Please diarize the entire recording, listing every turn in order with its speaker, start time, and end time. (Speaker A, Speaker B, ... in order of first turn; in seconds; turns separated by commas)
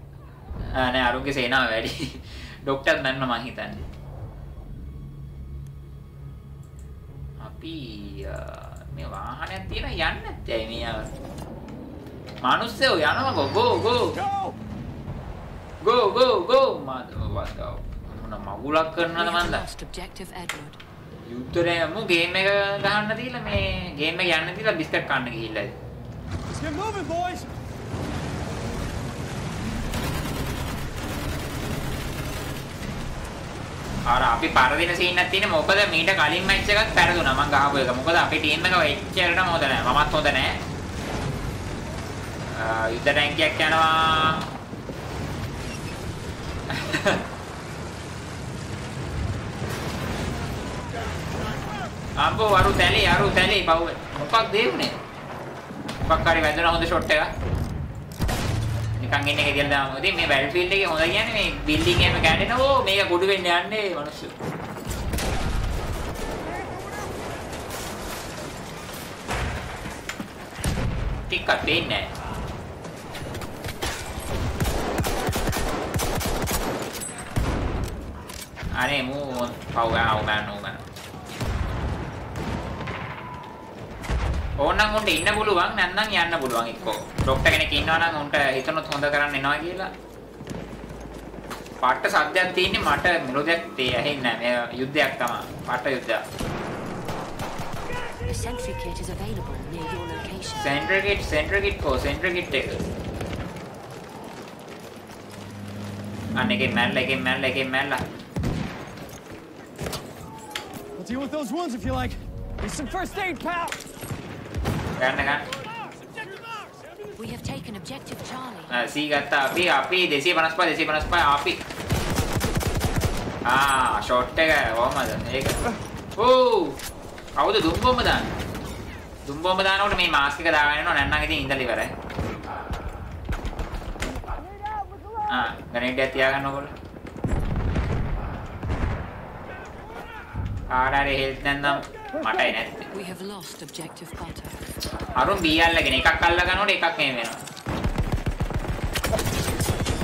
Speaker A: 0.6-3.9, Speaker A: 7.4-11.1, Speaker A: 12.4-14.2, Speaker A: 15.8-19.6, Speaker B: 19.1-20.8, Speaker A: 21.2-25.8, Speaker C: 26.7-27.4, Speaker A: 34.1-40.6, Speaker A: 42.5-44.5, Speaker A: 46.7-47.2, Speaker A: 52.2-55.0, Speaker A: 56.0-57.3, Speaker A: 59.0-64.3, Speaker A: 71.3-72.1, Speaker A: 78.8-80.9, Speaker A: 84.6-89.9, Speaker A: 91.8-96.2, Speaker B: 98.2-100.7, Speaker A: 100.5-102.9, Speaker A: 106.4-108.0, Speaker C: 111.0-113.8, Speaker A: 115.0-115.5, Speaker B: 117.2-118.7, Speaker A: 118.7-121.6, Speaker A: 123.5-125.6, Speaker A: 126.2-126.8, Speaker A: 127.4-128.3, Speaker A: 129.3-131.9, Speaker A: 135.3-136.7, Speaker A: 140.7-142.9, Speaker B: 142.9-144.7, Speaker A: 145.2-147.4